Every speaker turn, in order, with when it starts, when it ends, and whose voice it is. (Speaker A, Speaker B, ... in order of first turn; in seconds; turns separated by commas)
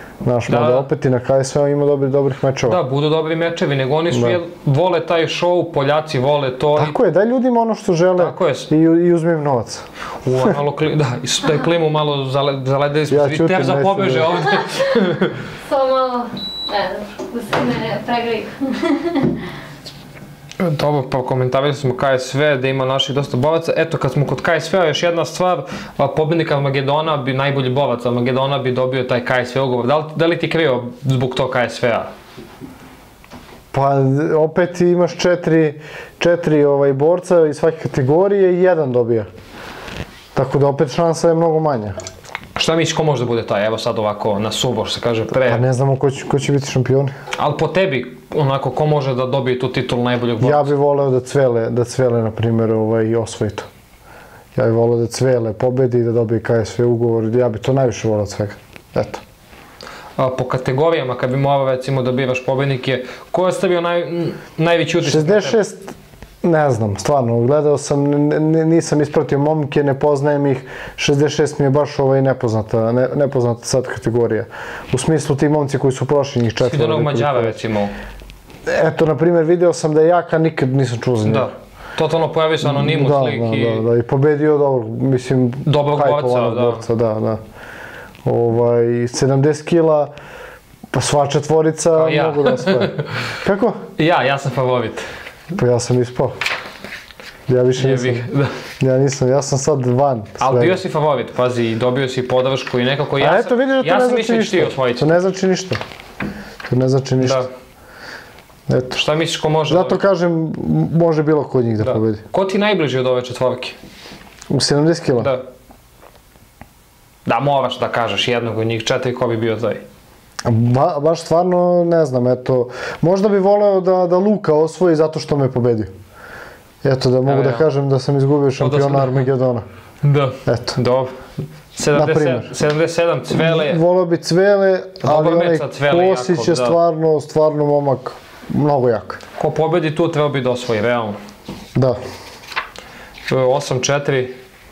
Speaker A: 0.2-2.8, Speaker B: 0.5-0.9, Speaker B: 2.7-7.0, Speaker A: 4.1-4.4, Speaker A: 6.7-9.8, Speaker B: 8.2-8.7, Speaker B: 10.2-15.3, Speaker A: 13.1-14.4, Speaker C: 15.7-19.4, Speaker B: 20.6-32.1, Speaker A: 33.7-39.3, Speaker A: 40.3-42.0, Speaker B: 42.5-45.6, Speaker A: 45.3-47.1, Speaker B: 47.4-50.7, Speaker A: 50.4-53.7, Speaker A: 54.5-59.2, Speaker B: 60.2-65.6, Speaker A: 65.0-77.6, Speaker B: 76.6-77.9, Speaker A: 78.7-81.5, Speaker B: 81.2-83.8, Speaker A: 82.6-87.4, Speaker B: 85.6-86.8, Speaker A: 88.2-90.1, Speaker A: 90.9-93.8, Speaker B: 91.9-93.3, Speaker B: 94.0-95.1, Speaker A: 95.5-96.3, Speaker A: 97.5-98.2, Speaker B: 97.8-98.5, Speaker A: 98.8-100.8, Speaker B: 100.4-105.1, Speaker A: 103.2-105.8, Speaker A: 106.7-107.4, Speaker B: 107.2-107.5, Speaker A: 108.7-109.0, Speaker B: 108.9-110.0, Speaker A: 109.7-112.2, Speaker B: 111.8-113.8, Speaker A: 114.5-115.3, Speaker B: 115.2-115.4, Speaker B: 117.2-119.8, Speaker A: 120.4-125.9, Speaker A: 126.8-129.6, Speaker B: 127.2-127.7, Speaker B: 128.6-129.3, Speaker B: 130.0-131.2, Speaker A: 130.4-130.8, Speaker B: 131.7-133.8, Speaker A: 131.9-132.5, Speaker A: 133.3-139.2, Speaker B: 135.0-136.8, Speaker B: 139.4-141.2, Speaker B: 143.3-144.3